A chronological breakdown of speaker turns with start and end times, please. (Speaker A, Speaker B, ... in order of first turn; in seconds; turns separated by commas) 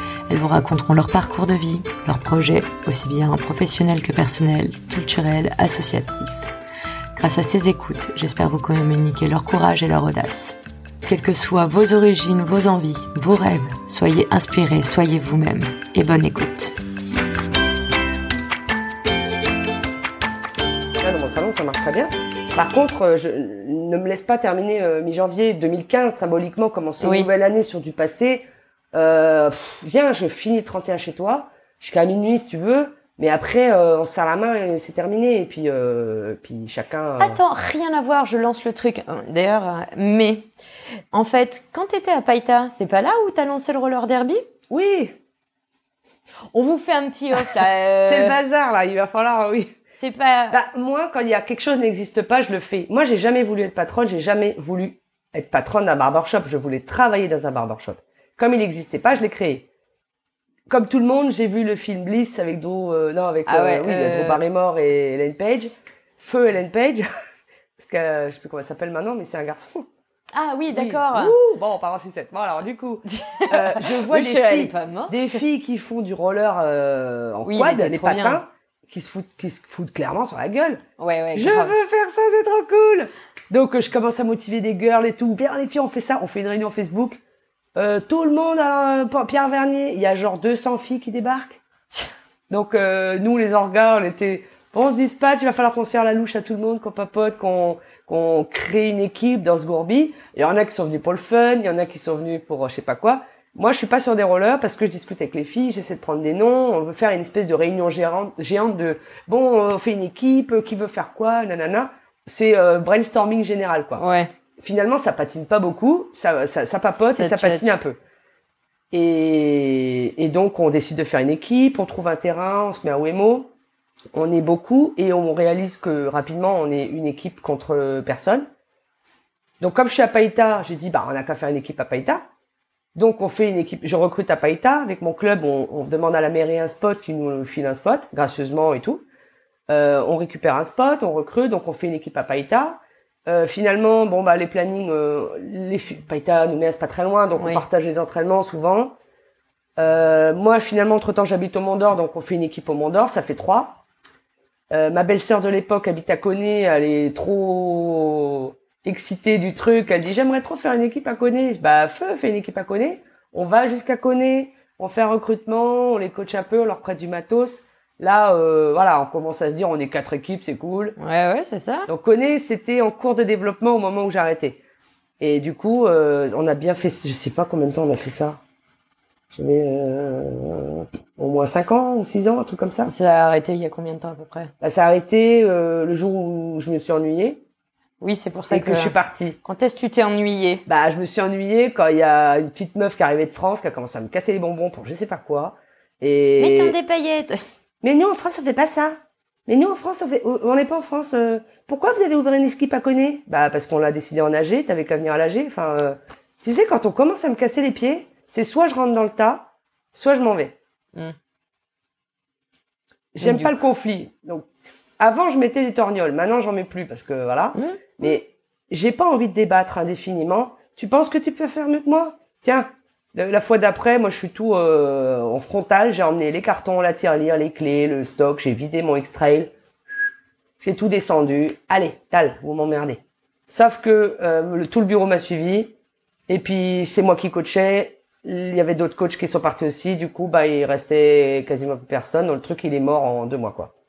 Speaker A: 0.3-6.4, Speaker A: 7.2-10.6, Speaker A: 11.1-16.7, Speaker B: 21.0-37.4, Speaker A: 27.0-27.3, Speaker A: 37.2-40.5, Speaker A: 41.1-44.5, Speaker B: 44.7-45.2, Speaker A: 46.5-48.4, Speaker B: 48.0-49.8, Speaker A: 50.0-50.6, Speaker B: 50.5-59.7, Speaker B: 60.7-67.1, Speaker A: 63.5-64.4, Speaker B: 67.8-69.9, Speaker A: 70.3-71.4, Speaker B: 70.7-80.8, Speaker A: 73.1-75.4, Speaker A: 77.5-78.4, Speaker A: 81.0-81.7, Speaker B: 81.3-87.2, Speaker B: 87.8-91.6, Speaker B: 92.5-114.0, Speaker A: 114.0-114.3, Speaker B: 114.6-118.0, Speaker A: 117.1-117.8, Speaker B: 118.9-123.5, Speaker B: 124.1-128.5, Speaker B: 129.6-132.2, Speaker B: 132.9-139.0, Speaker B: 139.7-148.9, Speaker A: 147.4-147.6, Speaker B: 149.8-153.8, Speaker B: 154.7-171.0, Speaker A: 171.0-171.9, Speaker B: 171.9-174.6, Speaker B: 175.2-178.4, Speaker B: 179.3-182.9, Speaker A: 182.9-184.5, Speaker B: 184.6-187.4, Speaker A: 188.0-190.7, Speaker B: 188.5-189.4, Speaker B: 190.7-196.8, Speaker A: 196.4-197.4, Speaker B: 197.8-210.6, Speaker B: 213.1-214.5, Speaker A: 213.2-213.5, Speaker B: 215.0-229.5, Speaker A: 217.6-217.8, Speaker B: 230.6-235.7, Speaker B: 236.3-243.7